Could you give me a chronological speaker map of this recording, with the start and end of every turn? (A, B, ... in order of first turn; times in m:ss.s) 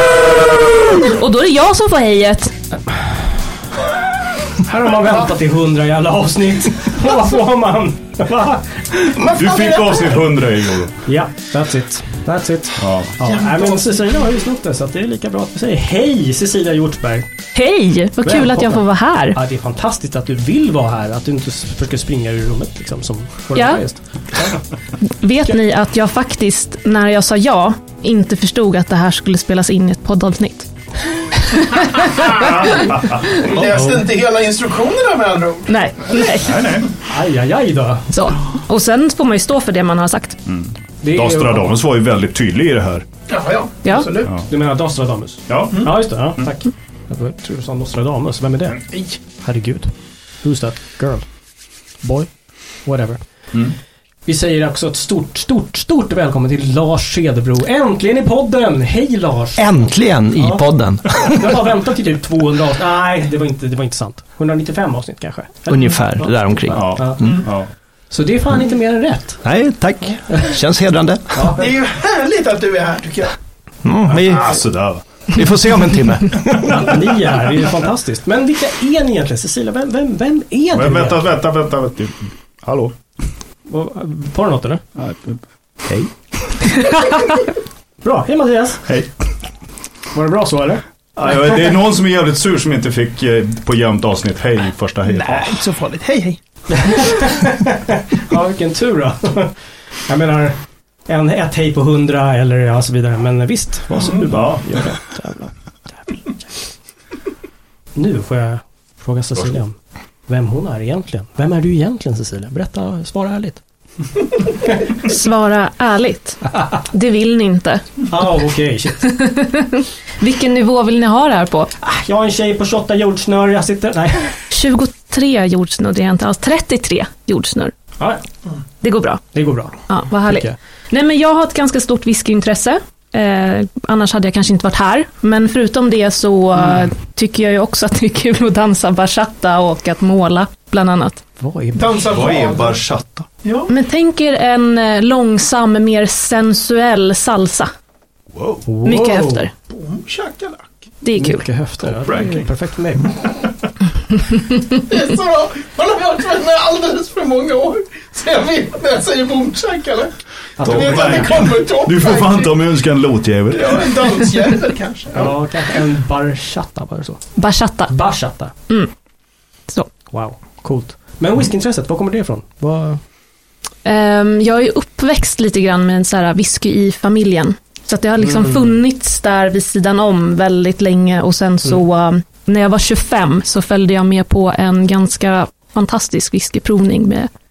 0:01.0-0:02.5 A
0:04.6-0:09.1 B
0:09.2-0:10.3 C
0:09.3-0:11.0 D
0:11.0-0:17.3 B
0:12.8-0:13.1 D
0:13.2-0:14.0 C
0:17.5-0:19.4 A
0:18.2-0:24.7 B
0:23.5-0:23.8 A
0:25.0-0:30.7 A
0:31.6-0:32.0 A
0:32.1-0:32.5 C
0:32.7-0:33.2 D
0:33.2-0:36.3 C
0:33.5-0:34.0 B
0:35.7-0:36.6 A
0:36.4-0:36.9 D
0:37.0-0:38.1 B
0:38.1-0:40.4 A
0:40.4-0:43.0 D
0:41.0-0:41.8 B
0:43.3-0:44.4 C
0:43.8-0:44.1 A
0:44.5-0:51.2 B
0:45.5-0:46.5 D
0:48.9-0:49.2 C
0:52.0-0:52.3 B
0:52.8-0:53.2 B
0:54.2-1:07.2 B
0:59.6-1:01.5 E
1:05.7-1:07.4 E
1:06.7-1:07.7 D
1:08.1-1:09.4 B
1:09.4-1:11.5 E
1:11.3-1:11.7 B
1:11.6-1:13.3 C
1:13.8-1:14.5 E
1:14.1-1:15.0 D
1:15.3-1:16.9 E
1:16.6-1:21.2 B
1:20.7-1:22.9 D
1:23.7-1:24.8 B
1:25.0-1:26.1 D
1:28.0-1:28.8 B
1:28.8-1:29.1 D
1:30.1-1:30.8 B
1:31.2-1:35.5 D
1:35.1-1:36.4 C
1:36.7-1:39.5 B
1:40.1-1:45.5 B
1:44.3-1:44.7 D
1:48.0-1:49.7 B
1:50.3-1:53.6 B
1:55.0-1:58.0 A
1:58.1-1:59.1 B
1:59.0-2:01.7 A
2:01.8-2:04.4 B
2:04.5-2:07.7 A
2:08.8-2:09.3 A
2:09.3-2:10.5 B
2:09.9-2:21.2 A
2:21.4-2:22.2 B
2:21.7-2:22.8 C
2:22.1-2:23.3 D
2:23.4-2:23.7 C
2:23.7-2:27.7 A
2:28.3-2:28.6 D
2:28.6-2:29.5 B
2:28.8-2:29.5 A
2:29.7-2:30.7 C
2:31.0-2:31.5 A
2:31.2-2:33.3 B
2:32.0-2:32.4 D
2:34.7-2:42.7 C
2:40.6-2:41.4 B
2:40.6-2:44.1 D
2:43.5-2:45.4 C
2:45.1-2:47.2 B
2:47.4-2:47.9 A
2:47.9-2:48.5 B
2:50.1-2:53.0 B
2:53.8-3:07.3 A
2:58.2-2:58.7 B